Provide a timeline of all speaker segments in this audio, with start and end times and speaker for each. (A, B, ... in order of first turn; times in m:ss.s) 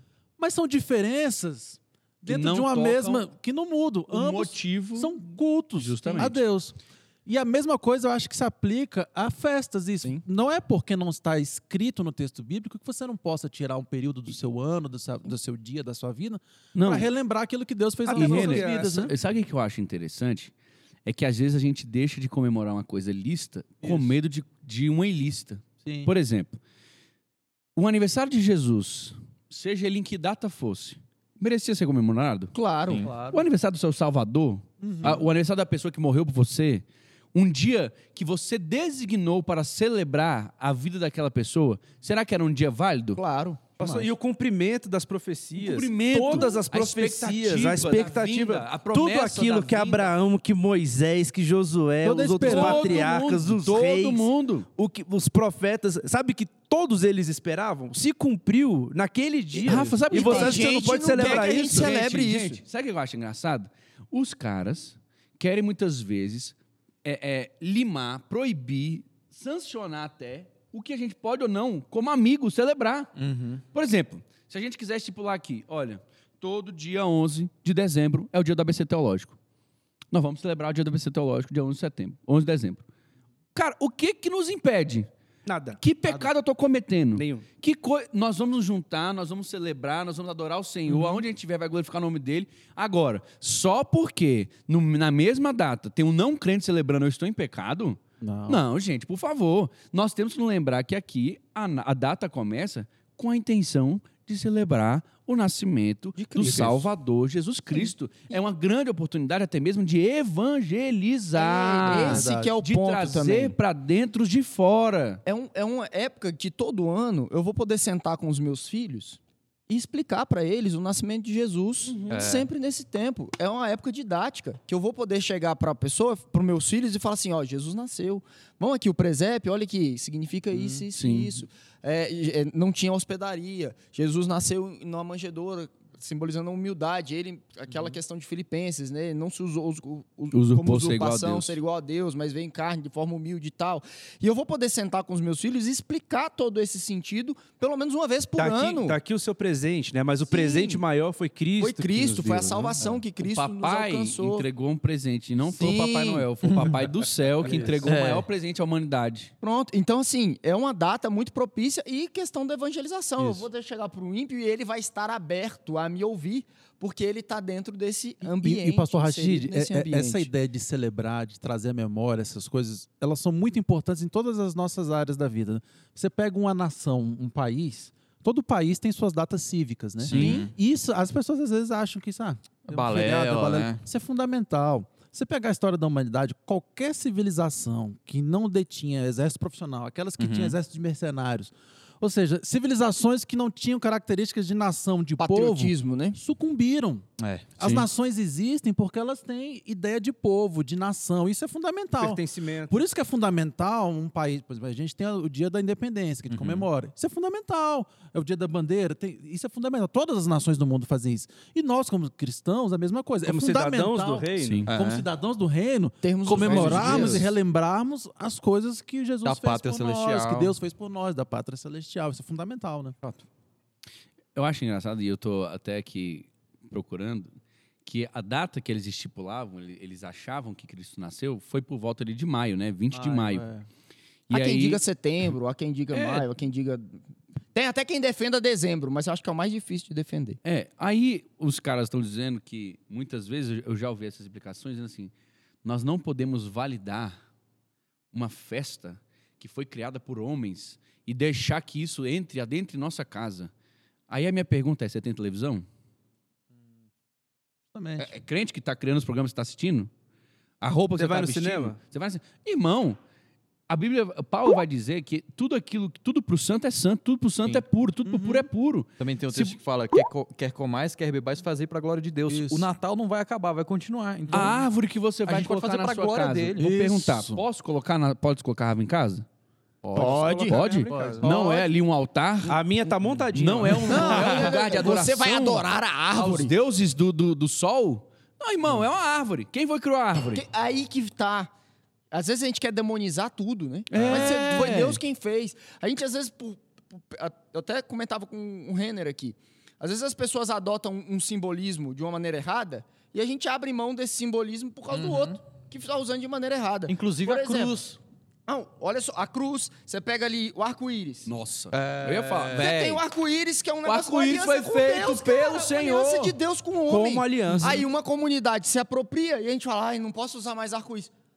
0:00.4-0:19.1 A
0:02.2-0:03.3 B
0:04.1-0:05.2 B
0:05.8-0:06.4 B
0:16.7-0:17.1 B
0:18.1-0:19.1 C
0:18.1-0:20.5 B
0:21.0-0:26.6 B
0:23.8-0:24.2 A
0:25.8-0:26.1 A
0:27.8-0:32.5 B
0:32.5-0:33.1 D
0:32.9-0:33.3 E
0:33.2-0:43.2 B
0:34.8-0:35.3 A
0:43.1-0:43.8 D
0:43.8-1:02.0 C
0:45.6-0:50.1 B
0:52.0-0:53.1 A
0:52.4-0:54.7 B
0:59.6-1:13.1 B
1:00.1-1:02.6 D
1:13.2-1:13.6 E
1:13.7-1:19.4 B
1:20.1-1:22.8 B
1:23.5-1:25.1 B
1:25.4-1:25.8 C
1:25.8-1:55.2 B
1:27.2-1:27.4 C
1:30.9-1:31.2 A
1:38.2-1:38.6 A
1:46.2-1:46.8 D
1:46.4-1:46.7 A
1:51.3-1:53.6 D
1:51.8-1:52.6 A
1:55.2-2:29.0 D
2:01.9-2:02.2 B
2:02.1-2:02.5 E
2:10.9-2:11.4 B
2:20.3-2:21.6 B
2:28.4-2:32.8 C
2:30.3-2:30.8 D
2:31.6-2:34.5 D
2:33.2-2:39.3 B
2:35.4-2:36.3 D
2:36.4-2:36.8 E
2:37.4-2:37.8 A
2:37.5-2:38.2 E
2:39.4-2:50.3 D
2:43.2-2:43.4 A
2:48.2-3:17.0 A
3:00.1-3:00.5 E
3:00.1-3:00.4 B
3:00.1-3:00.4 D
3:02.7-3:03.8 E
3:10.2-3:10.6 E
3:15.2-3:16.2 D
3:17.2-3:17.8 E
3:17.6-3:43.0 A
3:22.0-3:22.8 C
3:26.3-3:26.6 E
3:33.2-3:34.7 C
3:34.4-3:34.7 B
3:34.6-3:35.0 E
3:36.0-3:37.3 D
3:36.4-3:37.2 E
3:39.2-3:40.5 E
3:44.3-3:47.3 B
3:47.8-3:53.4 B
3:52.9-3:53.7 A
3:54.3-3:54.8 B
3:54.3-3:57.0 D
3:55.9-3:56.3 B
3:57.5-4:00.4 D
4:00.4-4:05.1 B
4:05.6-4:07.1 B
4:08.1-4:13.5 B
4:14.1-4:15.6 B
4:17.7-4:18.1 A
4:18.0-4:19.9 B
4:20.6-4:23.0 B
4:21.0-4:21.8 C
4:23.7-4:29.6 B
4:28.1-4:28.4 A
4:29.0-4:34.6 E
4:32.3-4:32.7 A
4:34.3-4:34.6 A
4:34.3-4:39.2 B
4:35.2-4:36.7 E
4:36.6-4:37.4 A
4:39.8-4:41.4 A
4:39.9-4:40.6 D
4:40.0-4:41.2 C
4:40.0-4:42.6 B
4:40.9-4:41.5 E
4:42.5-4:44.5 C
4:43.3-4:50.4 B
4:43.9-4:46.5 D
4:50.3-4:51.5 D
4:52.1-5:07.8 D
4:53.9-4:55.0 B
4:54.0-4:54.7 A
5:04.9-5:05.3 E
5:06.9-5:08.0 E
5:08.5-5:11.3 D
5:11.3-5:13.0 B
5:11.7-5:13.0 E
5:12.5-5:21.1 D
5:13.8-5:16.4 B
5:16.9-5:17.8 C
5:17.5-5:17.8 A